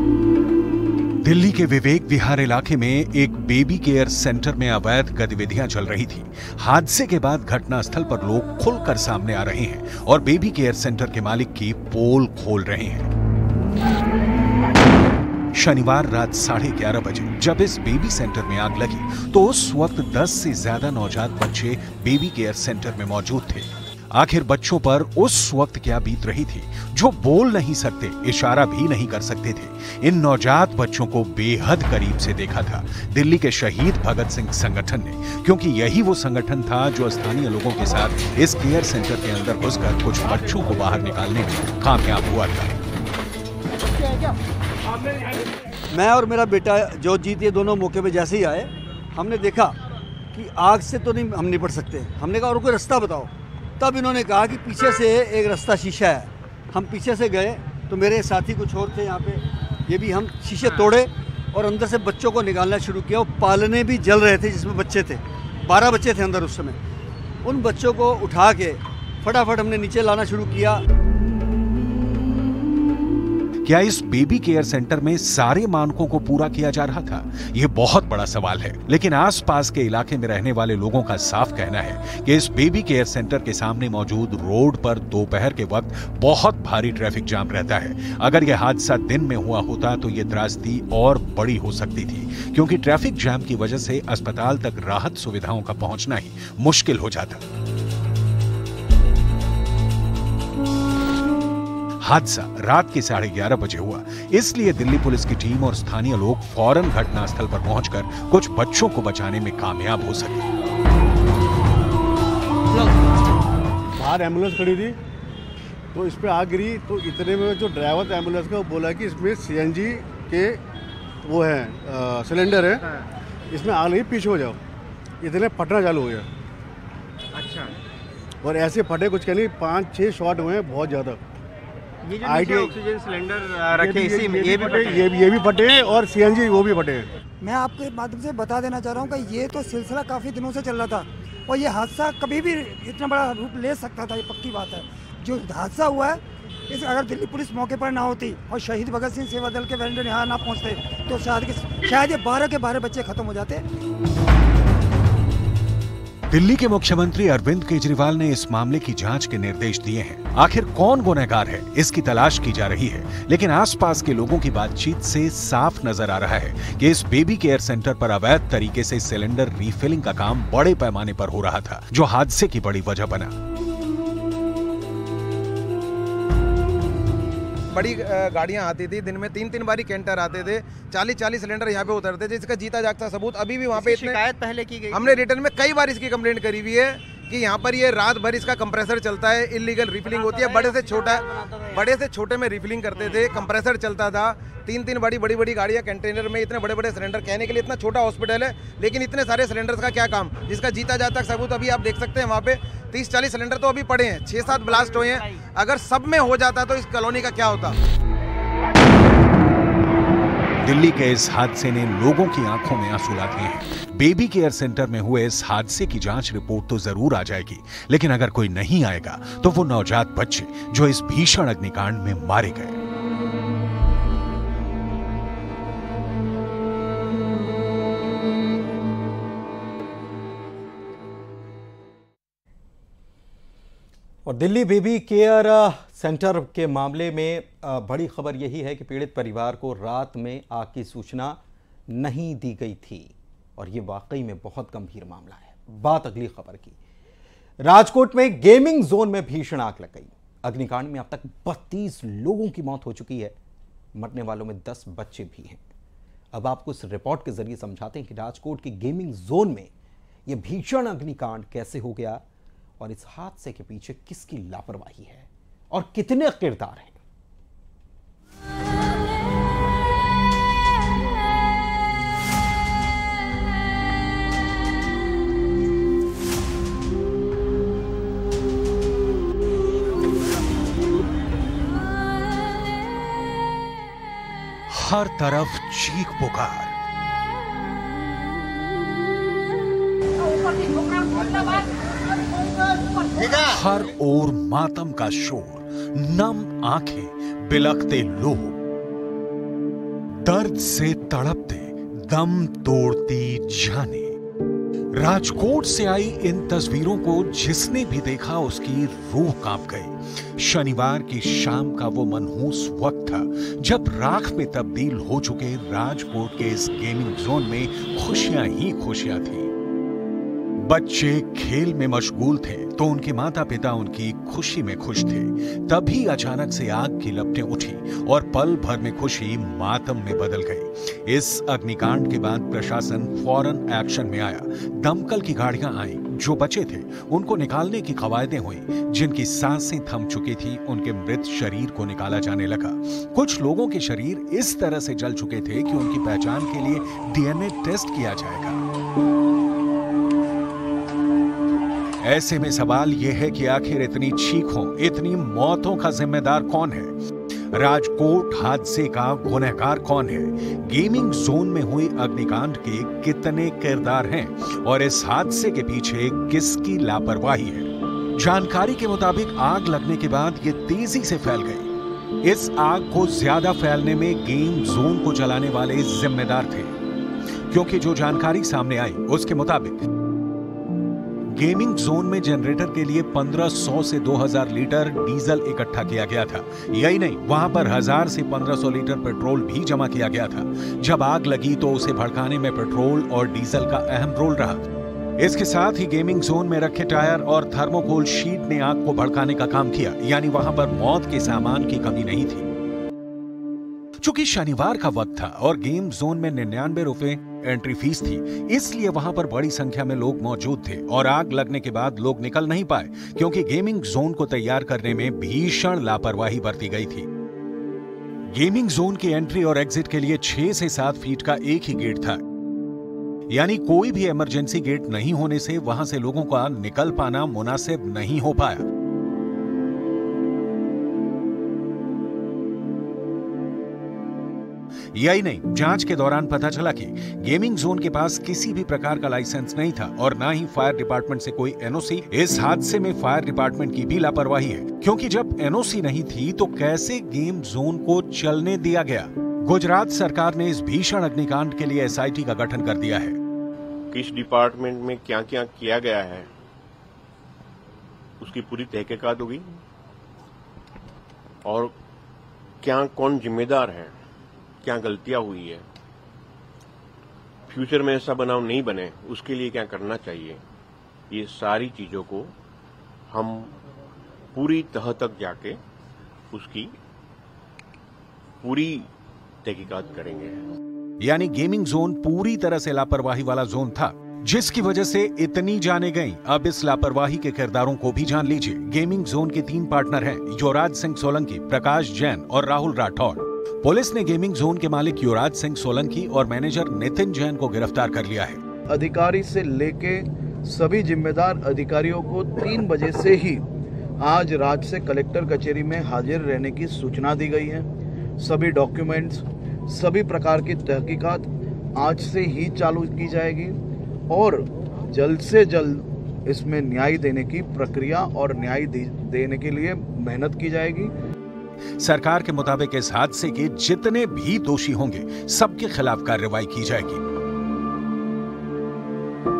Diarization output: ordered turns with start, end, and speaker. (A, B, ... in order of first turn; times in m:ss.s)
0:01.2-0:13.1 A
0:15.6-0:42.8 A
0:45.9-0:49.8 B
0:50.3-1:06.8 B
1:07.4-1:10.8 B
1:13.6-1:37.4 A
1:42.0-1:50.5 A
1:54.0-1:55.0 C
1:55.9-2:00.6 C
2:01.2-2:02.9 C
2:03.5-2:04.6 C
2:05.2-2:06.3 C
2:07.3-2:07.8 D
2:08.4-2:11.2 C
2:12.0-2:15.1 D
2:12.2-2:12.8 C
2:13.7-2:17.1 C
2:17.4-2:33.6 E
2:36.3-2:53.4 A
2:57.7-3:04.3 F
3:03.7-3:05.2 D
3:04.9-3:27.8 F
3:10.0-3:11.9 D
3:13.1-3:13.4 D
3:24.5-3:25.1 D
3:30.6-3:42.8 A
3:54.3-4:01.4 G
4:01.9-4:06.8 G
4:07.7-4:13.4 G
4:14.0-4:15.6 G
4:16.3-4:19.7 G
4:20.3-4:22.2 G
4:22.8-4:27.0 G
4:44.7-4:46.7 A
4:53.2-4:58.6 A
5:00.2-5:04.2 A
5:05.0-5:19.5 A
5:20.6-5:48.6 A
5:52.0-5:57.0 A
5:57.5-6:11.7 A
6:12.2-6:16.8 A
6:17.5-6:19.9 A
6:21.4-6:34.6 A
6:35.2-6:42.5 A
6:44.0-6:57.1 A
6:58.3-7:02.2 A
7:03.3-7:08.7 A
7:14.9-7:33.2 A
7:33.9-7:36.3 H
7:38.2-7:39.6 H
7:41.4-7:41.7 H
7:42.6-7:43.9 H
7:44.6-7:45.6 H
7:47.5-7:50.4 H
7:51.1-7:52.3 H
7:53.1-7:53.5 H
7:54.3-7:55.6 H
7:56.3-7:56.7 H
7:58.4-7:58.9 H
7:59.4-8:00.4 H
8:01.0-8:18.4 A
8:18.7-8:23.4 I
8:24.0-8:27.7 I
8:28.2-8:33.6 I
8:34.1-8:40.9 I
8:41.8-8:47.0 A